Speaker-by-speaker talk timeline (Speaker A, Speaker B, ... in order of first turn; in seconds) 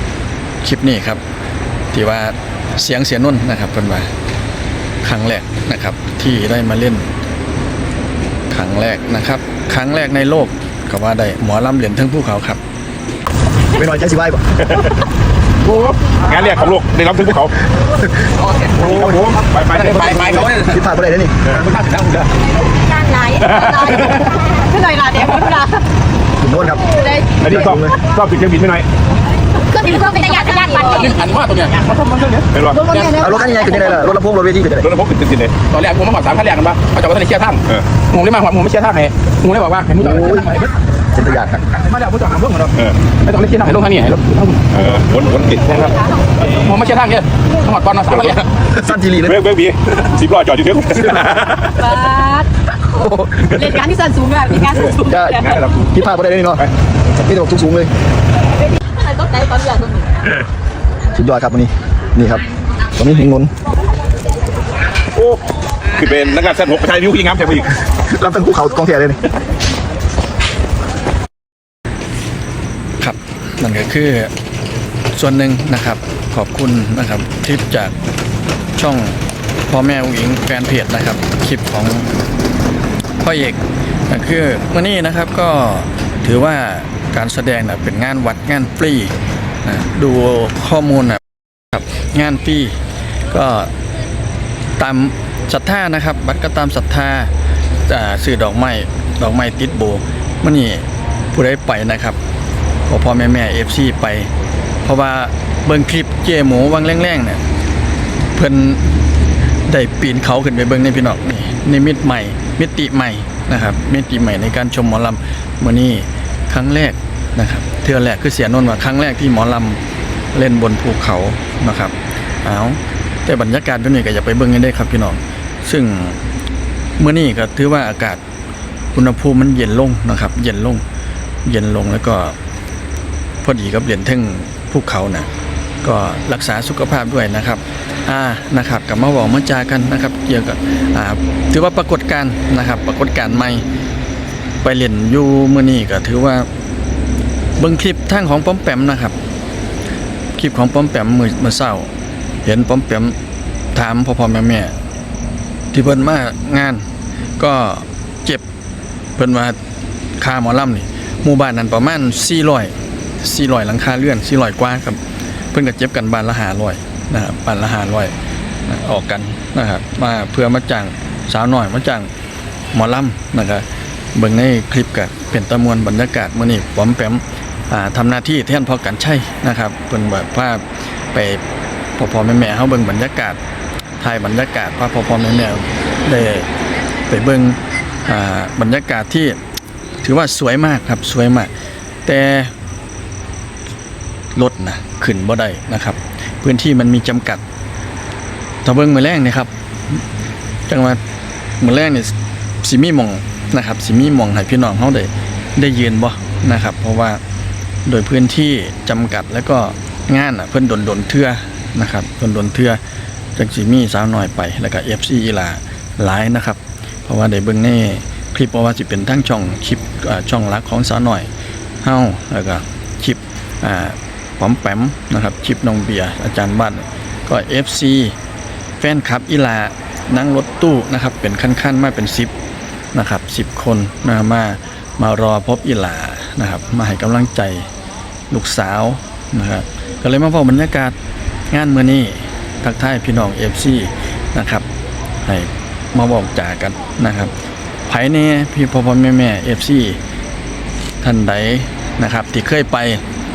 Speaker A: 0.6-1.2, 1.9-4.1, 5.0-7.1, 8.5-12.6, 73.0-74.3, 75.1-78.0, 78.8-82.1, 83.2-93.7, 94.8-97.3, 97.8-102.2, 102.9-104.3, 104.8-107.4, 108.3-109.0, 109.7-119.8, 120.3-126.2, 127.0-128.2, 128.9-130.8, 131.4-132.4, 133.4-135.3, 135.8-143.7, 144.6-146.5, 147.6-149.2, 150.3-151.9, 152.4-153.2, 153.7-154.8, 155.7-156.9, 157.4-158.4, 159.2-159.6, 160.2-165.0, 165.5-168.1, 168.7-172.1, 172.7-181.4, 182.0-183.4, 184.0-186.5, 187.1-189.4, 190.0-191.5, 192.1-192.5, 194.3-197.4, 198.6-199.5, 200.7-201.0, 201.6-207.2, 207.8-212.8, 213.4-221.3, 221.8-228.2, 228.8-232.3, 232.9-237.7, 238.3-240.9, 241.5-244.7, 245.2-247.3, 247.9-250.0, 251.0-253.0
Speaker B: 13.7-14.6, 18.8-19.1, 20.6-21.6, 26.4-28.0, 33.1-34.9, 40.0-40.5, 41.1-41.6, 48.8-49.4, 53.0-53.8, 55.0-56.6, 57.2-57.9, 61.1-63.5, 68.0-69.2
Speaker C: 16.1-17.5, 18.8-20.5, 23.4-24.2, 27.4-28.9, 32.5-33.0, 34.8-35.6, 44.7-45.9, 49.2-51.8, 54.7-55.9, 65.2-67.7
Speaker D: 19.8-20.8, 21.7-22.2, 30.9-33.2, 35.7-40.7, 41.7-44.9, 45.7-45.9, 46.6-48.5
Speaker E: 22.9-25.8, 27.0-27.3, 29.7-31.2, 32.7-34.1, 51.8-52.5, 53.4-55.5, 59.0-60.1